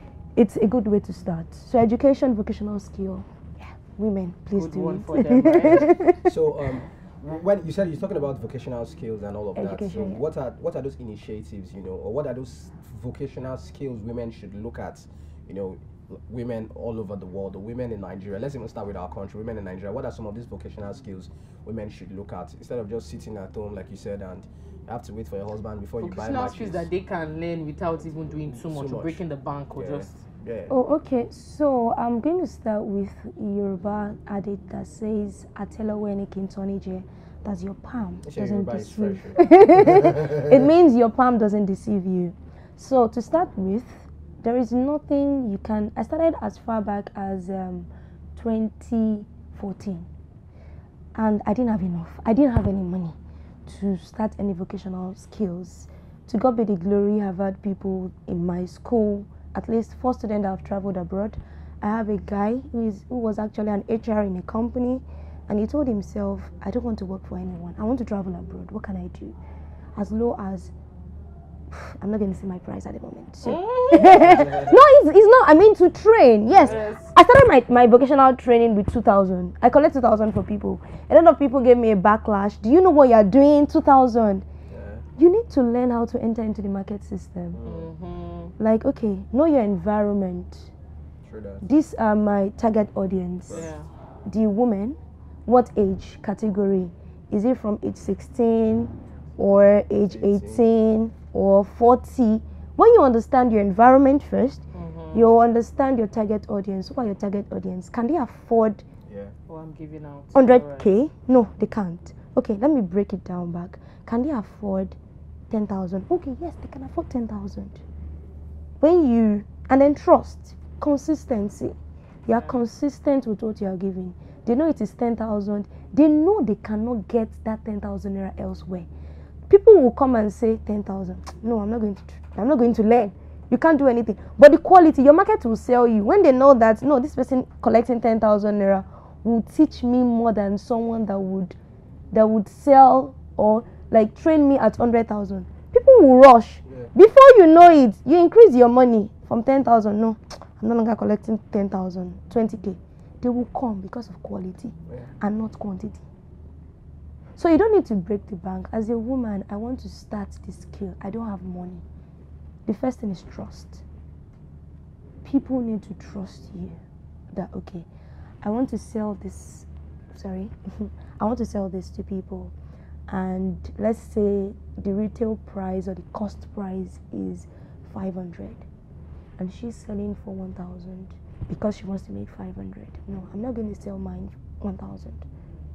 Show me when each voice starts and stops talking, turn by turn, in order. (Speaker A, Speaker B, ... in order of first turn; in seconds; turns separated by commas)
Speaker A: 0.4-6.3, Speaker B: 4.5-6.0, Speaker C: 6.2-26.9, Speaker A: 9.6-10.2, Speaker B: 26.0-30.2, Speaker C: 28.5-30.8, Speaker A: 30.7-50.1, Speaker C: 38.2-40.6, Speaker A: 51.1-69.4, Speaker A: 70.0-70.7, Speaker A: 71.7-84.4, Speaker B: 73.4-74.4, Speaker C: 74.2-74.8, Speaker B: 76.6-77.1, Speaker C: 84.7-85.1, Speaker A: 85.2-87.6, Speaker C: 87.5-87.9, Speaker B: 87.6-88.5, Speaker A: 88.6-90.7, Speaker C: 91.2-91.7, Speaker A: 91.6-93.7, Speaker C: 93.5-93.7, Speaker B: 93.5-93.9, Speaker A: 94.2-104.6, Speaker C: 100.1-100.7, Speaker B: 104.7-105.3, Speaker A: 105.1-108.8, Speaker C: 109.1-109.3, Speaker B: 109.5-110.9, Speaker A: 110.3-115.0, Speaker A: 115.5-117.8, Speaker A: 118.8-128.9, Speaker B: 122.3-122.6, Speaker A: 129.5-141.6, Speaker A: 142.1-156.0, Speaker A: 157.4-161.8, Speaker A: 162.7-163.8, Speaker A: 165.2-166.8, Speaker A: 167.3-167.9, Speaker A: 168.4-172.5, Speaker A: 173.1-178.7, Speaker A: 179.4-185.2